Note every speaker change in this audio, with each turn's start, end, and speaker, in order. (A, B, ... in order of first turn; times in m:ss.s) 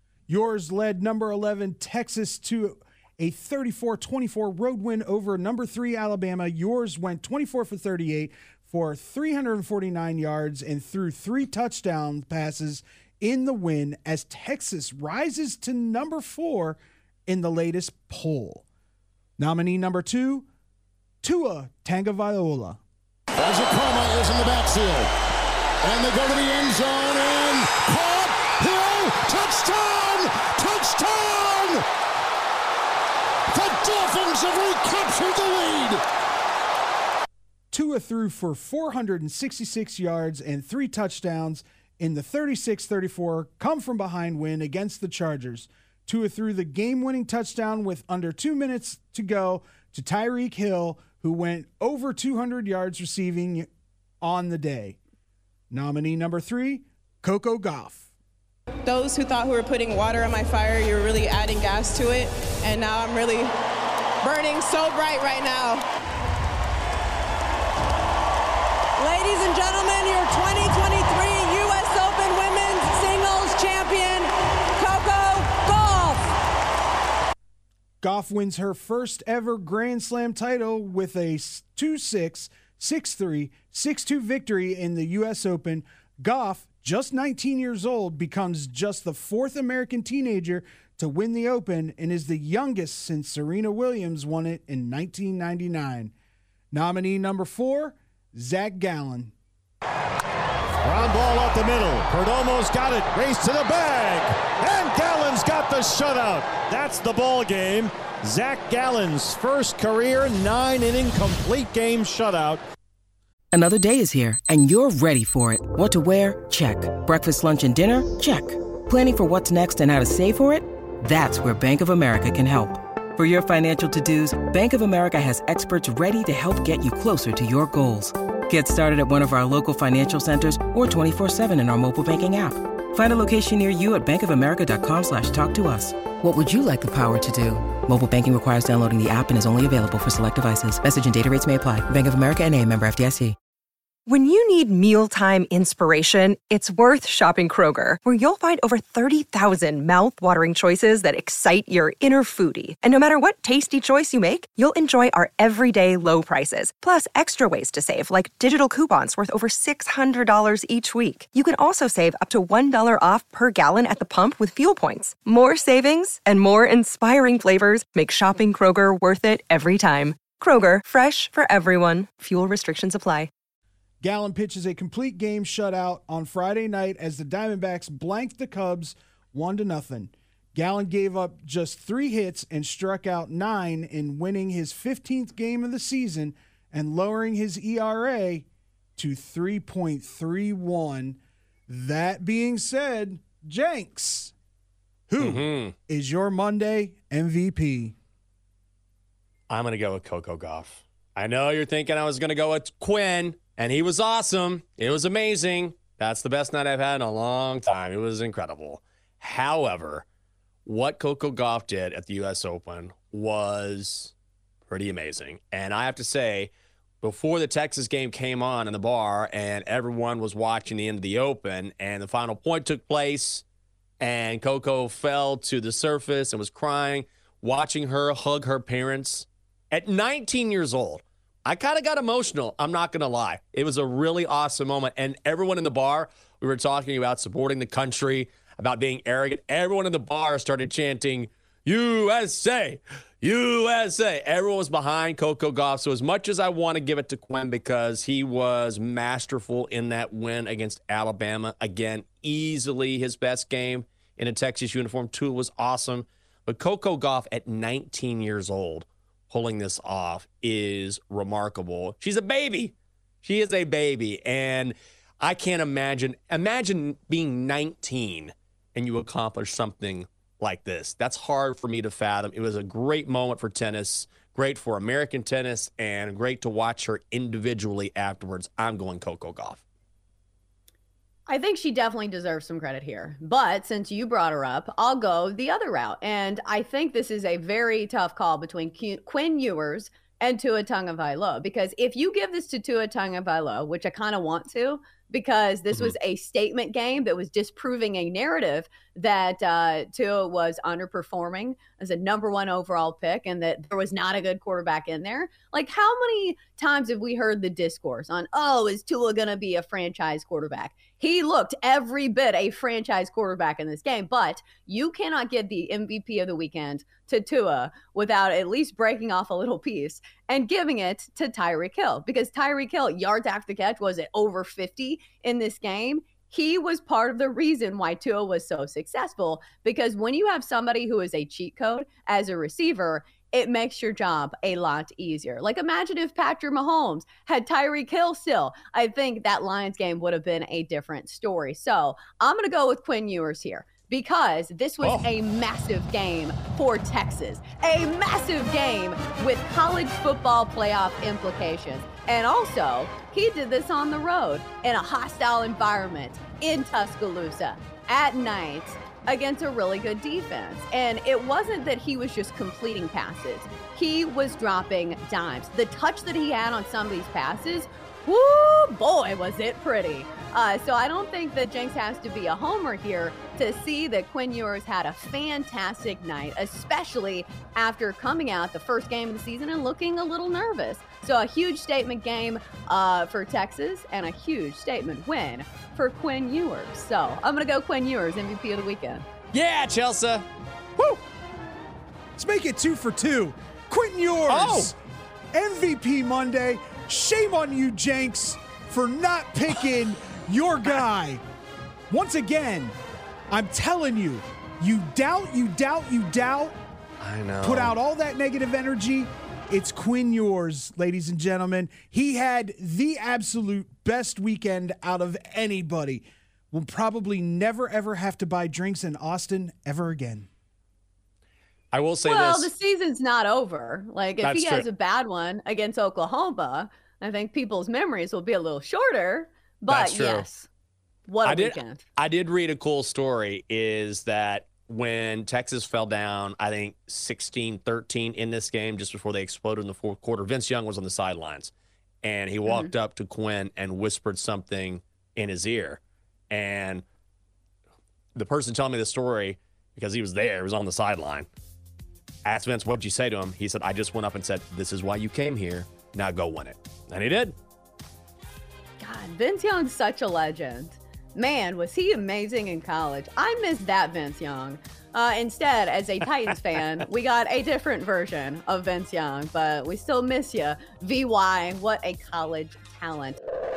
0:00.3-0:18.6 A
0:19.4-0:20.5 A
0:21.2-0:22.8 A
0:23.4-0:25.1 B
0:25.8-0:31.8 B
0:33.5-0:36.0 B
0:37.7-0:53.7 A
0:54.2-0:55.0 A
0:55.7-0:58.1 A
0:58.8-1:03.5 C
1:04.2-1:05.8 C
1:09.0-1:16.3 C
1:18.0-1:36.1 A
1:36.7-1:39.3 A
1:40.8-1:52.6 D
1:53.5-2:23.4 E
2:24.1-2:53.3 F
2:54.0-3:08.4 A
3:09.0-3:14.3 A
3:15.1-3:17.9 A
3:15.2-3:15.7 G
3:19.5-3:30.0 G
3:30.6-3:34.1 G
3:34.7-3:43.4 G
3:44.0-4:39.6 G
4:41.3-6:29.0 H
5:44.8-5:45.1 G
6:29.3-6:30.2 G
6:32.2-6:34.8 A
6:34.3-6:34.7 G
6:35.3-6:41.2 A
6:41.9-6:42.8 A
6:43.3-6:46.6 A
6:47.0-6:47.7 G
6:47.4-7:00.3 A
7:01.7-7:02.5 G
7:02.0-7:10.5 H
7:04.2-7:04.7 G
7:09.7-7:10.2 G
7:11.1-7:11.8 H
7:11.2-7:21.5 G
7:22.0-7:25.8 G
7:22.5-7:22.7 H
7:26.3-7:26.8 G
7:28.1-7:31.3 G
7:32.2-7:37.3 G
7:38.8-7:53.2 H